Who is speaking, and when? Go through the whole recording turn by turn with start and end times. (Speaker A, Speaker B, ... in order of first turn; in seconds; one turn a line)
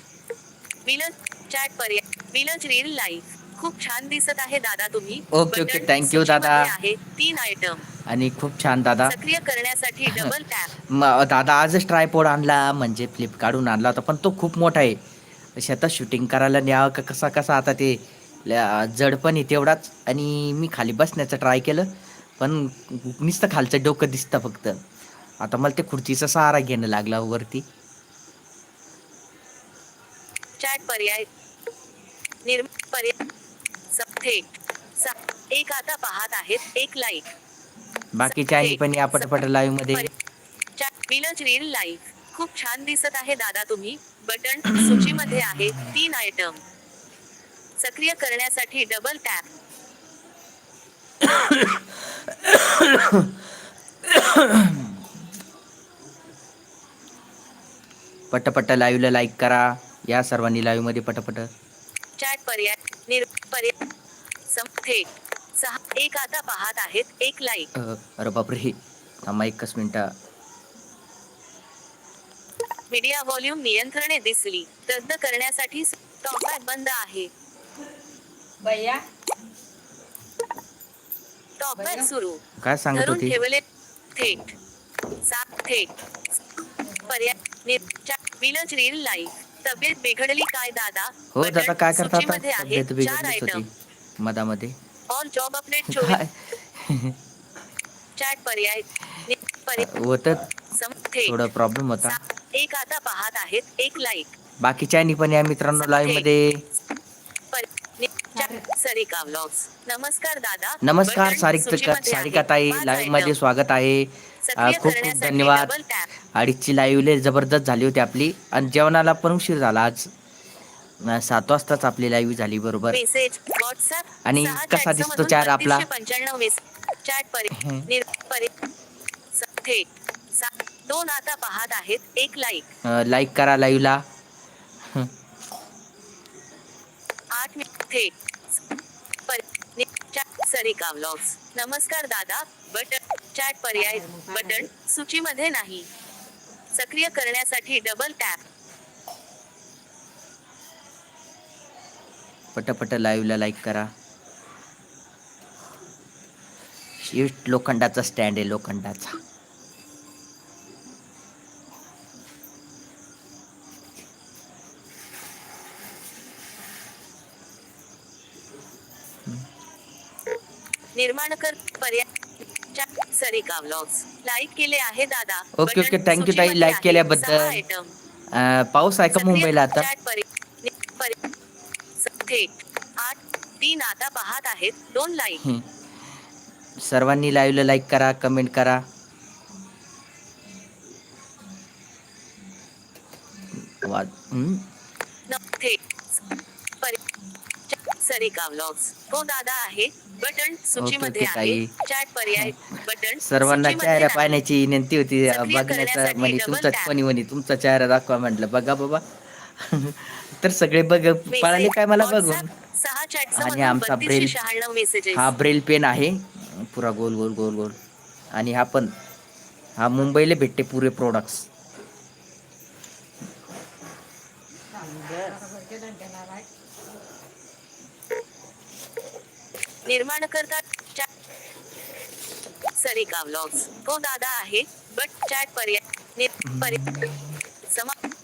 Speaker A: 0.9-7.9
Speaker B: 5.3-6.7
Speaker B: 8.1-9.2
Speaker A: 9.1-10.7
Speaker B: 10.1-15.0
Speaker B: 15.6-24.8
Speaker B: 25.4-27.6
Speaker A: 30.6-31.3
Speaker A: 32.4-33.2
Speaker A: 33.9-37.3
Speaker B: 38.1-40.1
Speaker A: 38.2-39.3
Speaker A: 40.8-46.6
Speaker B: 44.7-45.9
Speaker A: 47.8-49.5
Speaker B: 51.2-53.4
Speaker B: 54.0-55.0
Speaker B: 58.3-61.5
Speaker A: 62.2-63.8
Speaker A: 64.5-67.7
Speaker B: 67.7-70.1
Speaker A: 72.9-77.3
Speaker C: 78.6-79.0
Speaker A: 81.6-82.4
Speaker B: 82.6-83.4
Speaker A: 82.9-84.6
Speaker A: 85.2-85.9
Speaker A: 87.0-93.6
Speaker B: 91.3-94.8
Speaker A: 95.1-96.2
Speaker B: 95.9-97.2
Speaker A: 98.2-99.9
Speaker B: 99.8-100.5
Speaker A: 100.7-101.4
Speaker B: 101.2-102.2
Speaker A: 102.0-104.3
Speaker B: 104.6-106.6
Speaker A: 105.8-106.2
Speaker A: 107.5-113.4
Speaker B: 110.8-115.7
Speaker A: 114.4-116.1
Speaker B: 116.3-120.1
Speaker B: 121.0-123.0
Speaker A: 122.9-128.5
Speaker B: 124.2-125.9
Speaker B: 127.5-127.9
Speaker A: 129.3-132.7
Speaker B: 132.8-134.0
Speaker B: 134.8-135.1
Speaker A: 137.3-138.6
Speaker A: 139.3-145.9
Speaker A: 146.7-148.4
Speaker B: 152.6-153.9
Speaker B: 157.0-159.2
Speaker A: 170.9-172.1
Speaker A: 172.7-177.9
Speaker B: 175.6-177.6
Speaker B: 178.3-179.9
Speaker A: 179.1-181.2
Speaker A: 182.0-185.5
Speaker B: 185.4-185.7
Speaker B: 186.8-188.8
Speaker B: 193.6-194.7
Speaker A: 195.3-196.2
Speaker A: 197.7-204.4
Speaker B: 200.8-201.7
Speaker B: 202.4-212.5
Speaker A: 205.2-206.9
Speaker A: 211.3-215.3
Speaker B: 213.3-214.3
Speaker B: 215.1-217.8
Speaker B: 218.3-218.9
Speaker B: 219.8-221.5
Speaker C: 224.8-226.4
Speaker A: 229.8-231.1
Speaker A: 232.8-236.9
Speaker B: 236.4-237.4
Speaker A: 237.7-238.0